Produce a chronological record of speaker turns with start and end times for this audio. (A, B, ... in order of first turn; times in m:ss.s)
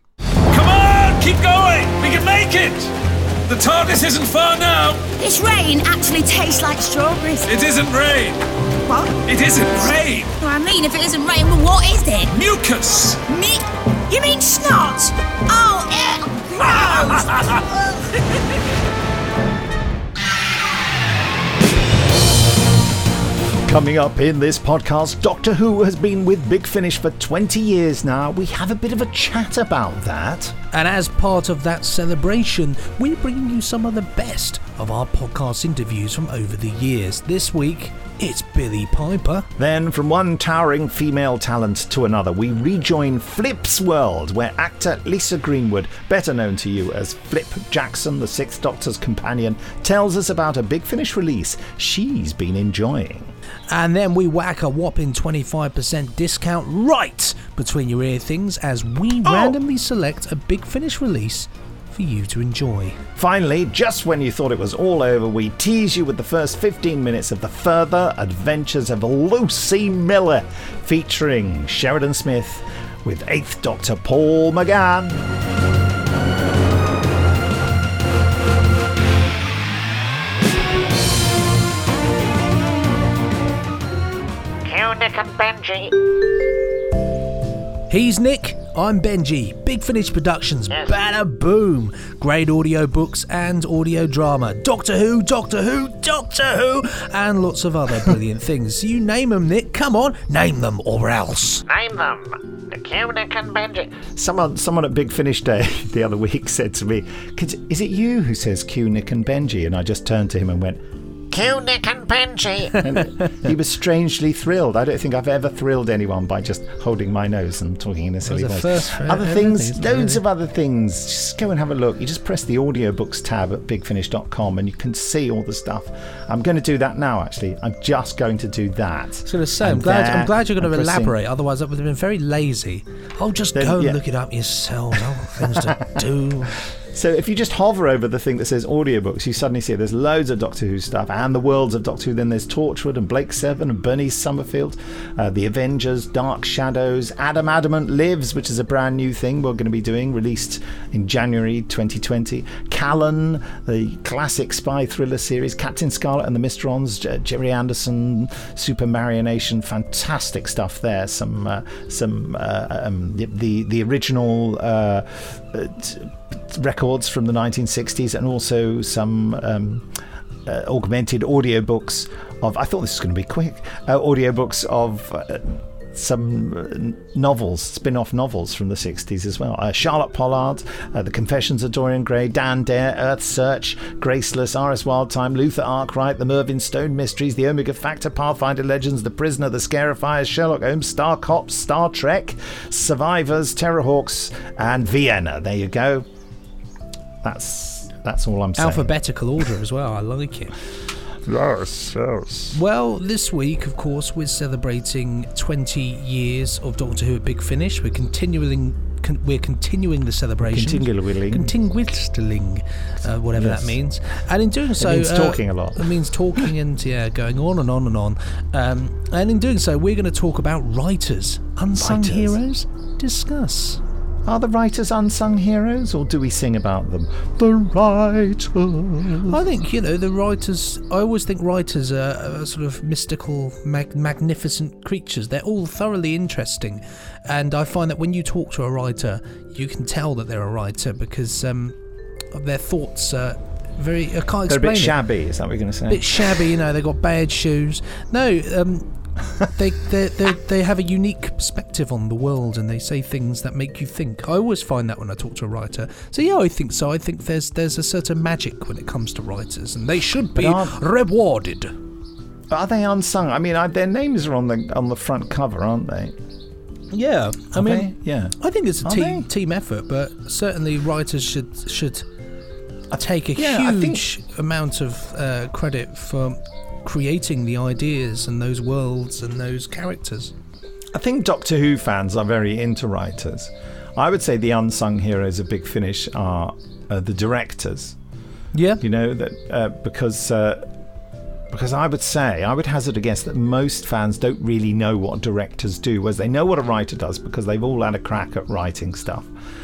0:00.5-0:02.9 A
0:03.5-0:05.0 A
0:05.2-0:07.5 B
0:07.4-0:08.4 A
0:08.8-0:09.2 B
0:09.2-0:10.3 A
0:10.4-0:12.4 B
0:12.3-0:13.2 A
0:13.3-0:17.5 B
0:16.6-0:17.4 A
0:23.6-0:30.6 C
0:30.7-0:39.5 D
0:39.6-0:53.3 C
0:53.7-1:03.0 D
0:59.2-0:59.6 C
1:03.2-1:15.2 C
1:24.6-1:25.9 E
1:27.9-1:41.6 D
1:41.7-1:44.1 E
1:44.2-1:50.8 C
1:51.3-1:52.8 E
1:52.8-2:11.1 C
1:53.0-1:53.3 D
1:58.2-2:00.2 D
2:09.2-2:16.6 D
2:13.5-2:14.0 C
2:14.9-2:16.0 C
2:16.7-3:16.1 C
3:17.2-3:18.9 C
3:18.6-3:20.6 D
3:21.2-3:22.6 C
3:22.5-3:43.8 D
3:30.4-3:31.6 C
3:33.3-3:33.8 C
3:34.8-3:36.4 C
3:41.7-3:42.4 C
3:44.2-3:49.4 C
3:49.3-4:01.8 D
4:02.3-4:05.0 D
4:04.5-4:06.6 C
4:05.9-4:21.8 D
4:20.3-4:20.8 C
4:22.5-4:26.2 C
4:26.9-4:32.1 D
4:27.5-4:29.3 C
4:32.9-4:34.0 C
4:33.0-4:40.3 D
4:40.9-4:48.0 C
4:48.5-4:48.8 D
4:48.8-4:50.7 C
4:51.5-4:59.3 C